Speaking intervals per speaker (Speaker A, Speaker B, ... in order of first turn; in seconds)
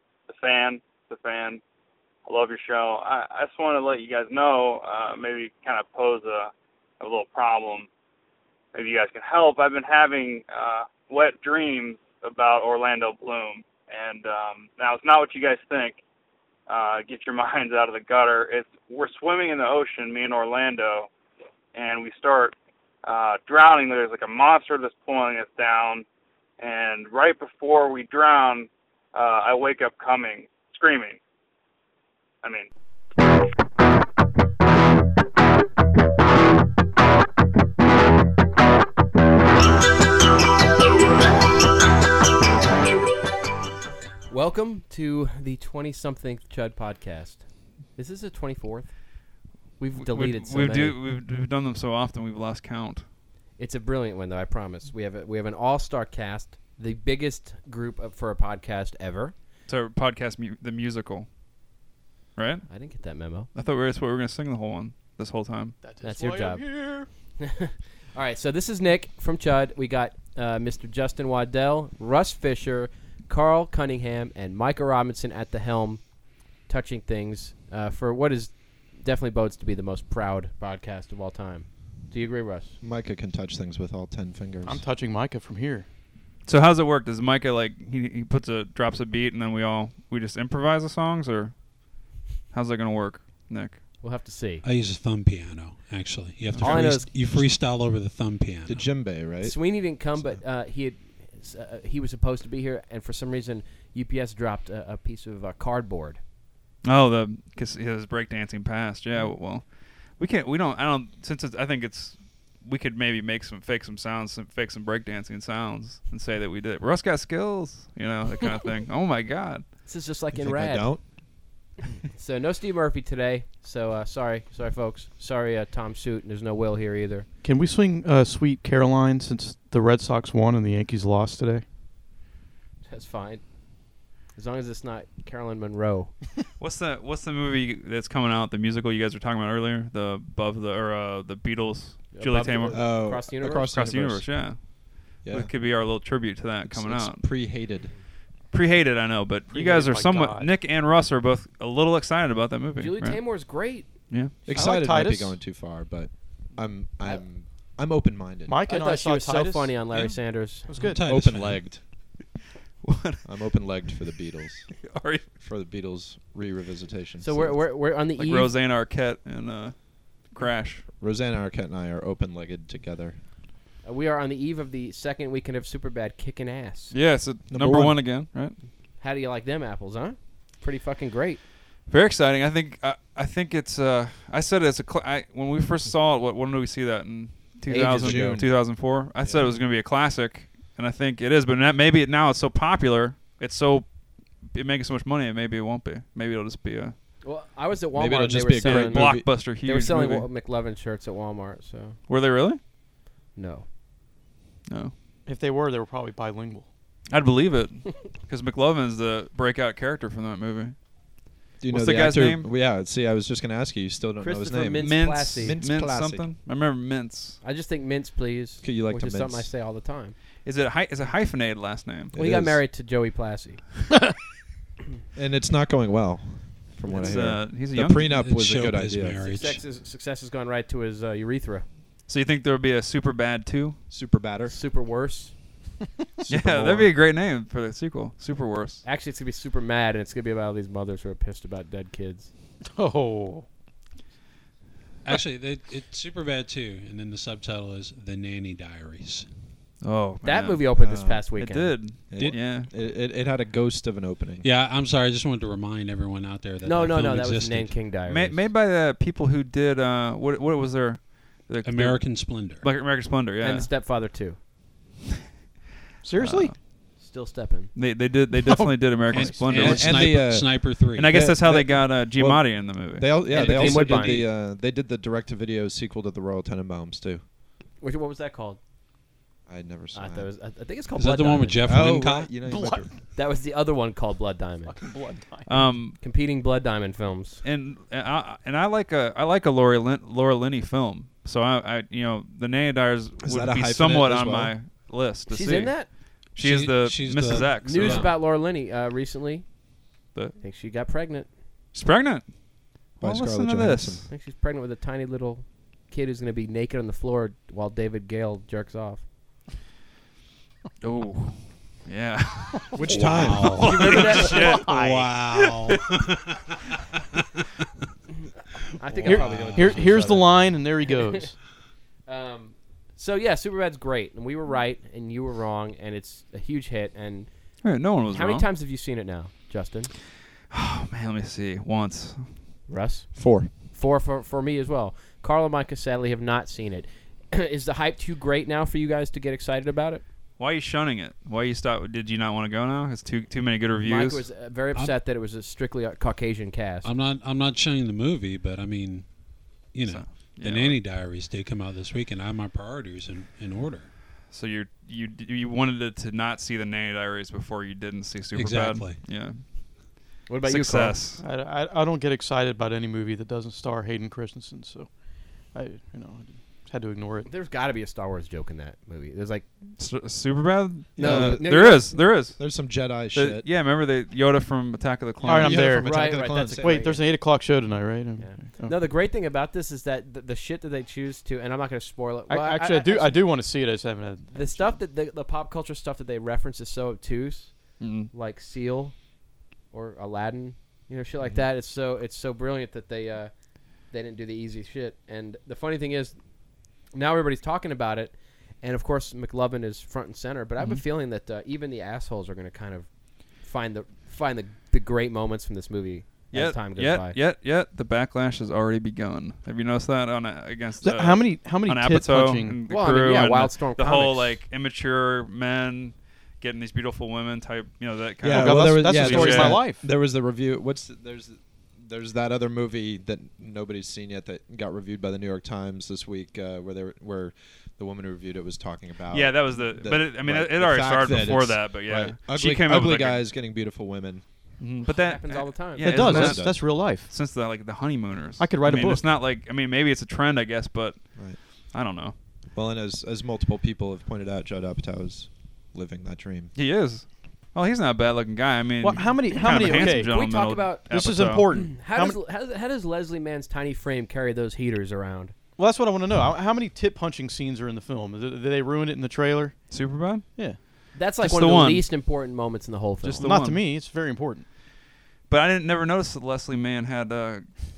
Speaker A: 0.3-1.6, 2.3-7.9, 8.7-16.0, 16.7-21.1, 21.7-26.1, 26.6-31.2, 32.4-32.7
Speaker B: 44.3-48.9, 49.8-51.0, 53.6-59.3, 62.7-63.5, 66.0-66.7, 67.4-82.7, 94.0-94.6, 96.6-97.1, 99.4-106.2, 119.9-120.9, 122.2-127.3, 132.9-133.4, 134.3-136.2, 142.1-143.7, 152.8-153.9, 158.7-160.9, 167.2-168.5, 173.8-176.9, 179.0-181.4, 187.7-188.2, 197.2-202.0, 203.3-203.7, 214.2-215.6, 217.4-220.2, 222.1-223.6, 226.9-227.1, 229.2-231.7, 234.5-235.3, 238.8-242.3, 250.2-251.8, 256.6-258.4, 263.4-264.4, 267.0-267.7, 273.3-274.3, 277.8-278.6, 279.9-281.7, 283.1-284.8, 286.0-287.4, 295.3-295.9, 297.3-299.5, 300.4-301.3, 304.1-309.0, 313.6-315.6, 318.8-321.1, 322.1-327.3, 328.1-329.9, 332.7-340.0, 343.8-346.9, 360.3-361.0, 367.3-369.4, 371.0-371.9, 375.6-377.0, 378.2-383.2, 384.3-388.9, 389.7-396.2, 396.9-407.2, 412.7-414.4, 434.8-435.9, 449.6-450.9, 451.5-455.3, 460.9-463.3
Speaker C: 50.0-53.0, 59.7-61.3, 62.4-62.7, 63.5-65.8, 86.5-91.5, 92.5-93.8, 106.8-109.7, 110.2-119.7, 136.6-147.2, 148.5-153.2, 162.8-163.2, 164.8-165.3, 168.2-170.9, 176.9-178.6, 181.9-193.9, 194.4-196.9, 198.6-200.3, 202.1-202.6, 204.7-204.9, 207.1-210.8, 211.7-212.5, 214.8-217.4, 220.4-222.1, 227.0-228.1, 232.1-233.8, 236.3-238.8, 249.8-250.6, 251.4-252.7, 258.1-263.7, 266.2-266.6, 267.8-270.2, 270.9-273.7, 285.5-286.0, 287.4-298.1, 301.7-302.3, 303.0-304.1, 310.8-312.8, 313.8-314.7, 327.6-328.5, 330.5-332.3, 340.4-344.2, 349.9-350.8, 354.3-359.4, 360.4-361.2, 369.8-372.6, 373.1-375.8, 387.8-388.1, 406.3-419.6, 429.1-433.2, 434.6-441.0, 441.7-442.1, 446.6-451.5, 459.7-460.3, 461.2-461.9, 463.0-463.6, 465.3-467.6
Speaker D: 65.8-67.1, 84.7-85.9, 127.4-131.6, 149.5-150.5, 154.5-155.4, 158.5-159.8, 160.7-161.0, 205.3-206.7, 242.6-243.5, 266.0-266.5, 268.4-269.5, 282.4-282.9, 284.7-285.5, 319.0-321.4, 361.2-364.9, 365.5-367.3, 375.3-378.8, 382.3-384.8, 410.8-412.6, 418.3-419.8, 435.8-437.1, 438.4-439.0, 448.8-450.1, 450.9-452.2, 455.6-459.6, 463.2-464.5
Speaker E: 82.8-84.8, 98.7-99.5, 120.3-121.0, 142.7-144.5, 145.2-145.5, 146.6-147.9, 154.4-158.6, 161.1-161.8, 163.2-164.8, 165.4-167.6, 171.0-173.2, 177.5-178.0, 187.7-189.5, 197.9-199.3, 211.6-216.3, 218.6-219.5, 222.1-222.6, 225.1-229.3, 233.9-234.6, 236.2-236.9, 250.8-251.2, 252.1-254.5, 269.5-277.2, 279.5-280.3, 281.6-282.9, 293.2-294.6, 303.0-304.1, 312.8-313.7, 319.0-320.3, 333.2-333.5, 371.0-373.5, 375.2-377.0, 418.2-434.2, 435.9-436.6, 442.5-446.5
Speaker F: 94.6-98.8, 160.8-161.6, 228.1-229.6, 245.1-249.3, 254.4-257.8, 261.6-262.6, 269.1-271.2, 281.0-282.4, 296.4-298.1, 312.9-316.4, 346.8-349.1, 349.7-353.9, 358.3-359.0